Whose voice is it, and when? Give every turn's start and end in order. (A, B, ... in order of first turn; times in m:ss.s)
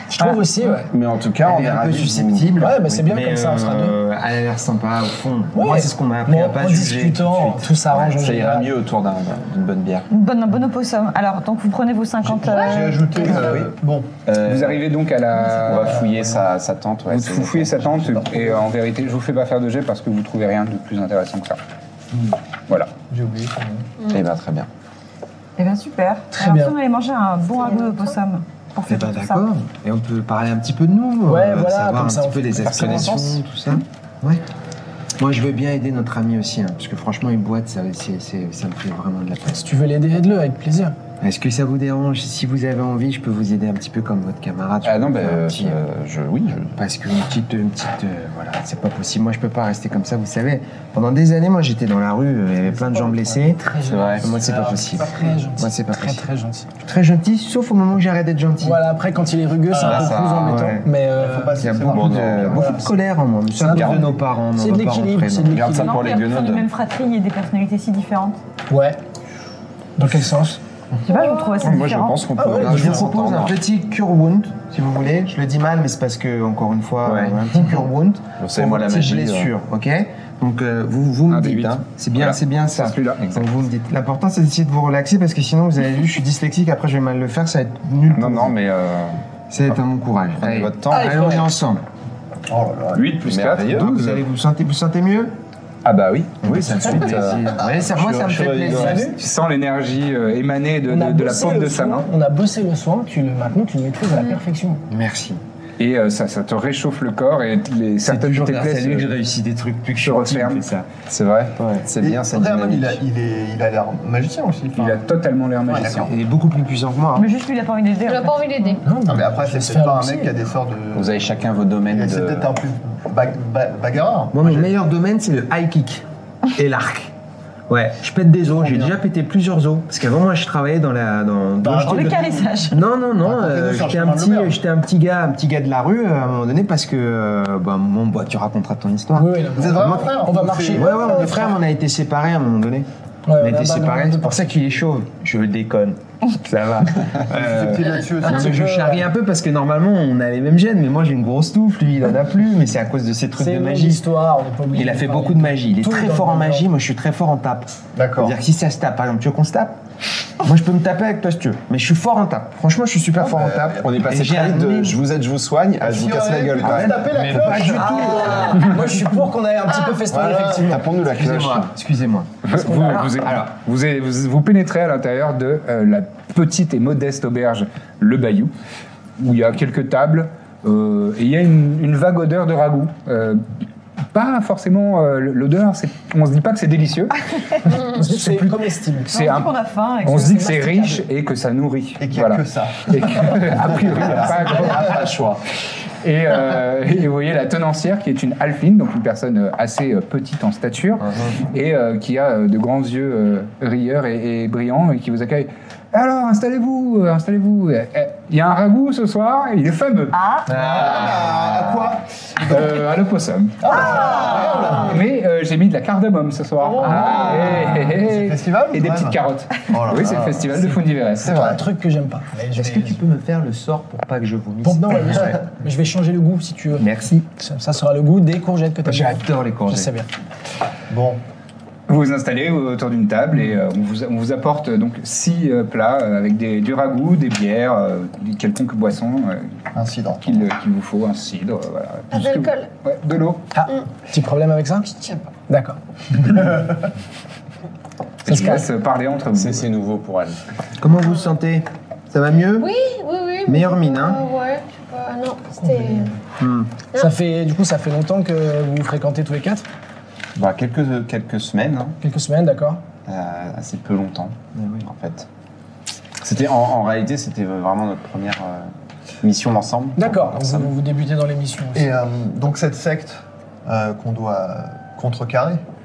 0:00.1-0:00.9 A
0:00.2-0:00.5 B
0:00.8-0:02.6 C
0:01.4-0:07.7 D
0:02.6-0:04.0 A
0:05.5-0:08.7 A
0:07.8-0:10.1 C
0:10.1-0:13.6 B
0:12.2-0:14.1 E
0:12.6-0:13.3 F
0:13.4-0:13.7 C
0:14.2-0:14.8 C
0:14.4-0:16.1 G
0:15.5-0:17.9 C
0:17.1-0:21.6 G
0:17.9-0:18.6 E
0:23.1-0:23.9 E
0:24.1-0:24.7 C
0:25.6-0:29.4 B
0:26.3-0:26.7 A
0:27.6-0:28.1 F
0:28.9-0:34.4 D
0:31.3-0:33.2 A
0:32.6-0:33.4 C
0:35.2-0:39.6 D
0:39.5-0:41.0 A
0:41.2-0:45.8 D
0:44.8-0:46.8 C
0:46.6-0:56.2 D
0:52.7-0:56.7 A
0:53.8-0:54.3 C
0:54.4-0:55.4 E
0:56.8-0:58.8 D
0:58.6-1:01.7 A
0:59.7-1:00.1 E
0:59.8-1:00.7 C
0:59.8-1:00.9 D
1:01.1-1:02.7 E
1:01.6-1:05.6 D
1:01.8-1:02.7 C
1:02.5-1:02.8 A
1:03.6-1:06.0 A
1:05.5-1:06.7 C
1:05.7-1:08.4 B
1:08.7-1:09.0 A
1:10.0-1:10.6 A
1:11.0-1:12.3 B
1:11.6-1:13.6 C
1:12.4-1:13.0 A
1:12.5-1:28.6 D
1:17.0-1:17.4 C
1:18.4-1:19.5 C
1:21.3-1:23.5 G
1:28.1-1:29.2 C
1:29.5-1:31.8 D
1:30.4-1:31.4 C
1:30.9-1:31.4 A
1:32.5-1:33.1 E
1:32.9-1:33.8 G
1:33.2-1:34.2 C
1:33.5-1:35.3 D
1:35.8-1:39.1 C
1:36.4-1:39.1 D
1:38.7-1:39.2 A
1:39.2-1:42.1 G
1:40.9-1:44.8 A
1:44.9-1:45.4 D
1:45.8-1:49.1 G
1:48.0-1:50.8 D
1:50.0-1:50.7 G
1:51.0-1:53.0 C
1:51.6-1:51.8 D
1:52.0-1:55.0 E
1:54.7-1:56.1 G
1:55.7-1:56.1 E
1:55.8-1:57.3 D
1:57.1-1:58.8 B
1:58.0-1:58.8 F
1:58.8-2:00.3 A
1:59.0-2:04.7 E
2:00.9-2:02.5 C
2:04.3-2:07.1 D
2:07.7-2:22.9 D
2:11.6-2:12.5 E
2:11.8-2:12.8 B
2:13.2-2:14.6 E
2:19.2-2:21.5 A
2:19.5-2:21.6 E
2:23.2-2:24.5 A
2:23.4-2:34.0 D
2:27.3-2:28.6 E
2:28.2-2:29.1 A
2:33.4-2:36.7 A
2:34.7-2:39.8 D
2:37.9-2:38.4 E
2:40.4-2:45.0 D
2:43.2-2:43.8 E
2:43.8-2:47.5 C
2:45.8-2:48.6 E
2:46.6-2:48.7 D
2:47.3-2:50.8 A
2:50.1-2:50.7 E
2:50.6-2:51.7 C
2:51.0-2:53.0 D
2:52.4-2:58.5 G
2:52.6-2:53.1 A
2:59.2-3:03.4 G
3:04.1-3:15.2 G
3:07.9-3:09.1 A
3:09.1-3:11.0 B
3:12.0-3:15.1 E
3:14.9-3:15.2 C
3:16.0-3:30.2 G
3:30.1-3:30.5 B
3:30.5-3:32.0 D
3:30.5-3:32.7 E
3:32.4-3:41.6 G
3:33.6-3:35.0 E
3:33.9-3:34.8 B
3:36.7-3:39.2 E
3:39.7-3:40.5 E
3:40.5-3:43.0 A
3:41.2-3:41.6 E
3:42.5-3:45.4 D
3:44.6-3:50.1 A
3:46.8-3:47.2 D
3:48.8-3:49.9 D
3:50.9-3:51.2 E
3:51.9-3:59.5 G
3:59.7-4:00.5 E
4:00.2-4:03.4 G
4:02.1-4:02.7 F
4:03.5-4:04.9 A
4:04.9-4:05.2 F
4:05.5-4:06.6 A
4:08.2-4:09.6 G
4:08.2-4:08.7 A
4:09.3-4:10.4 C
4:10.8-4:12.7 D
4:12.6-4:16.1 F
4:13.4-4:14.2 D
4:15.6-4:16.0 A
4:16.4-4:16.7 D
4:17.0-4:19.6 A
4:20.3-4:22.0 C
4:22.0-4:22.8 A
4:23.1-4:25.3 C
4:24.5-4:24.9 D
4:26.2-4:28.7 C
4:29.2-4:30.7 C
4:30.0-4:31.9 A
4:31.7-4:35.6 E